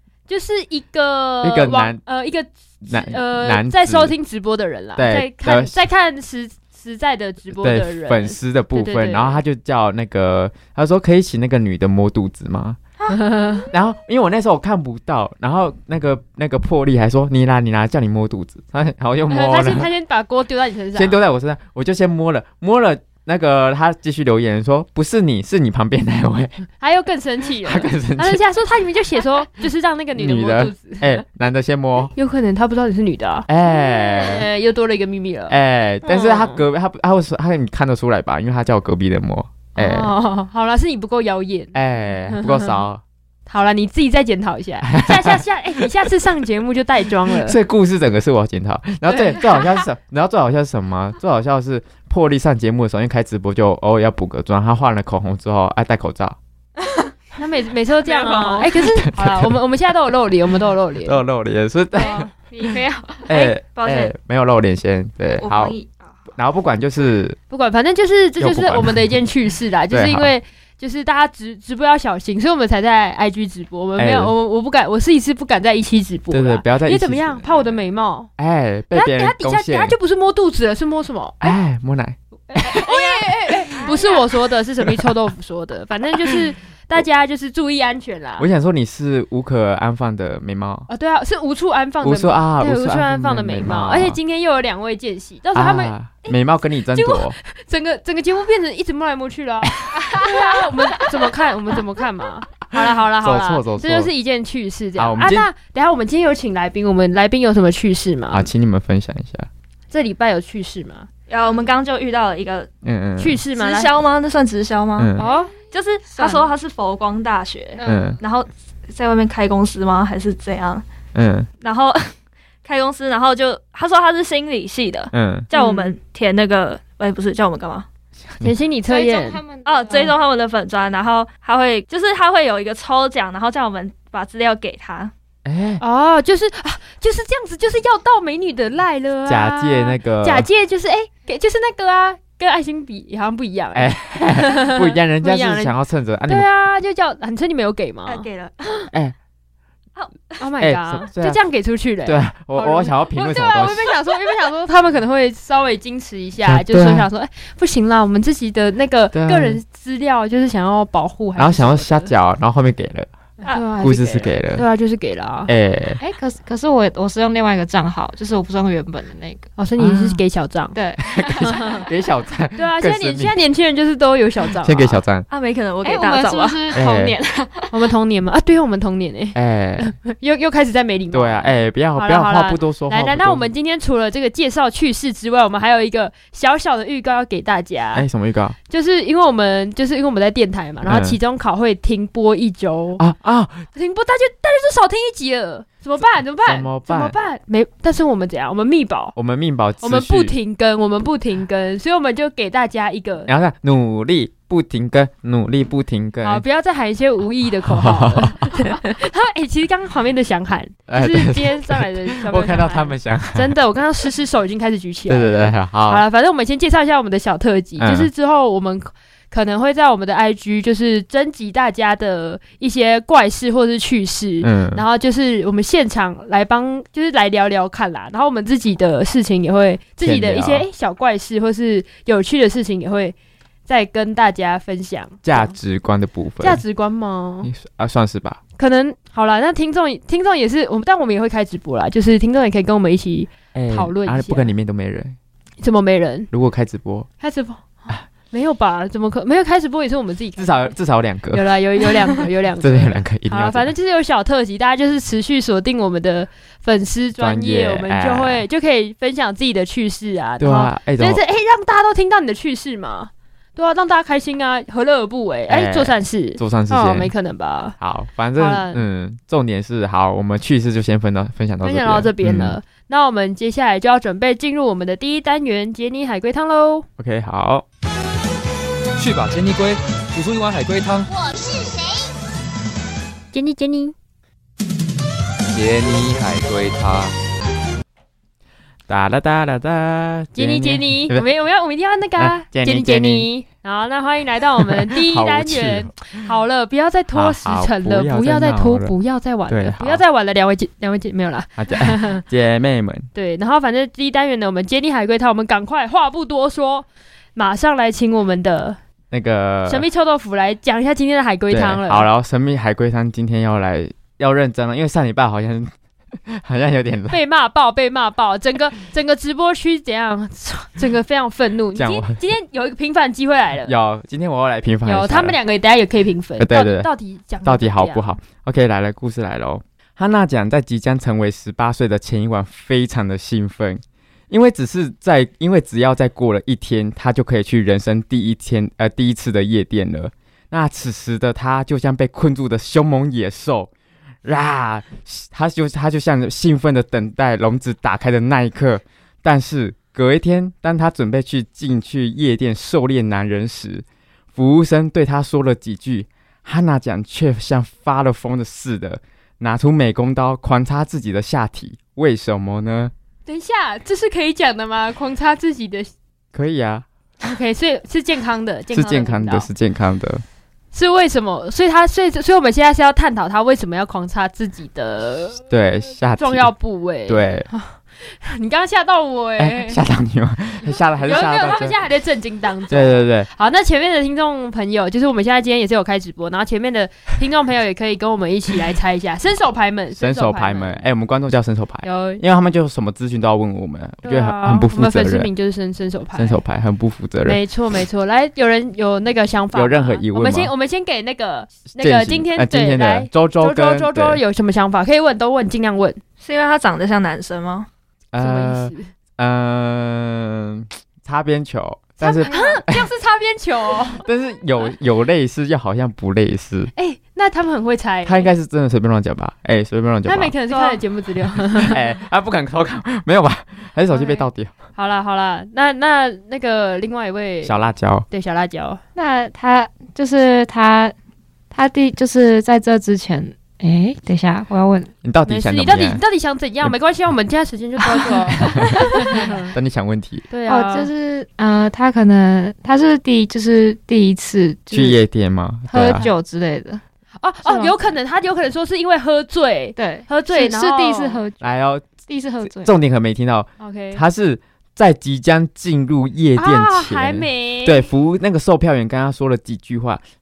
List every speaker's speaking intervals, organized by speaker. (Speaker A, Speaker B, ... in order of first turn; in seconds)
Speaker A: 0.3-9.4, 13.1-13.7, 19.3-21.2, 26.8-31.2, 32.1-36.6, 39.8-41.8, 42.3-42.7, 43.5-47.6, 49.1-49.7, 57.4-61.2, 67.5-78.3, 78.9-81.5, 82.5-88.5, 90.9-96.4, 96.9-108.5, 109.9-111.1, 113.2-113.9, 115.2-115.5, 117.8-118.2, 125.5-125.9, 128.4-129.4, 135.8-145.8, 146.3-148.3, 150.4-162.1, 163.4-165.5, 169.6-170.8, 171.4-171.9, 172.6-175.0, 177.7-188.1, 188.7-193.0, 193.7-199.2, 199.8-203.3, 206.2-233.2, 233.7-235.6, 236.4-237.5, 238.6-244.5, 245.6-246.3, 247.2-247.7, 248.3-250.7, 251.3-267.8, 268.4-268.8, 271.6-276.9, 283.3-283.9, 290.4-302.2, 303.1-308.8, 309.7-312.1, 317.1-323.8, 324.9-328.0, 363.3-365.9, 367.2-369.5, 370.7-375.4, 376.2-379.8, 380.6-390.8, 391.8-392.2, 394.0-396.4, 397.2-406.0, 408.2-408.9, 412.0-414.1, 416.8-418.3, 420.1-421.8, 423.9-428.8, 435.3-439.5, 440.3-440.9, 445.7-446.1, 447.2-451.2, 453.6-454.0, 456.4-457.8
Speaker B: 1.4-2.0, 2.9-4.2, 5.0-5.8, 7.5-12.8, 13.7-19.9, 20.9-26.7, 27.6-28.4, 30.2-32.1, 33.5-34.5, 35.5-40.1, 41.7-43.0, 44.8-46.2, 47.4-56.4, 58.8-59.6, 61.0-62.3, 63.3-65.8, 66.3-67.4, 68.4-69.2, 69.9-70.3, 74.0-74.3, 76.3-77.8, 78.4-80.0, 81.4-83.8, 84.9-85.1, 88.4-90.9, 92.0-94.2, 95.5-97.4, 103.1-104.1, 105.0-105.5, 108.3-109.5, 112.8-113.4, 115.0-115.3, 117.8-118.2, 121.1-121.5, 125.1-125.5, 135.4-135.8, 139.3-140.5, 143.7-146.5, 150.6-151.4, 152.1-153.9, 156.4-157.1, 159.1-159.6, 161.4-163.1, 163.8-164.6, 165.5-166.0, 169.8-170.2, 171.0-173.3, 174.6-175.3, 176.7-177.2, 179.3-179.9, 181.1-183.5, 187.9-188.6, 190.8-191.2, 193.0-193.7, 196.0-197.2, 199.2-200.4, 203.3-206.4, 207.7-208.6, 210.9-213.6, 215.1-216.1, 217.8-218.1, 224.4-224.8, 230.0-230.7, 235.2-236.6, 237.4-238.4, 243.5-245.2, 246.3-247.1, 250.4-251.5, 252.6-253.7, 257.2-258.4, 260.4-261.2, 265.5-267.1, 267.8-272.6, 277.0-277.6, 288.9-291.3, 292.2-293.3, 294.8-296.2, 297.1-298.9, 299.5-300.0, 301.6-303.1, 309.1-309.9, 311.5-315.7, 316.3-317.2, 321.8-322.2, 323.6-325.4, 326.4-326.9, 327.4-343.7, 344.2-362.9, 366.3-366.9, 368.7-370.2, 375.5-376.5, 377.1-377.5, 379.4-381.8, 382.7-383.3, 389.9-395.3, 396.2-397.4, 399.5-400.5, 401.8-404.2, 408.1-412.9, 414.0-416.7, 418.1-420.4, 421.2-424.5, 427.4-428.1, 435.0-436.0, 439.5-440.3, 444.7-446.1, 451.4-451.9, 452.4-460.0
Speaker C: 58.1-58.6, 62.1-63.3, 116.1-116.5, 128.9-130.2, 166.0-169.5, 170.7-171.5, 175.8-177.8, 428.9-430.9, 431.5-434.9, 437.9-439.5, 440.5-445.0, 445.7-446.8, 447.4-447.7, 449.8-451.4, 452.0-452.7
Speaker D: 58.1-58.6, 62.0-64.1, 65.4-66.2, 111.3-112.7, 113.5-120.8, 121.6-122.1, 122.6-127.9, 129.6-135.1, 148.1-148.9, 149.9-150.5, 175.3-176.9, 406.2-407.7
Speaker E: 279.0-281.2, 285.5-287.2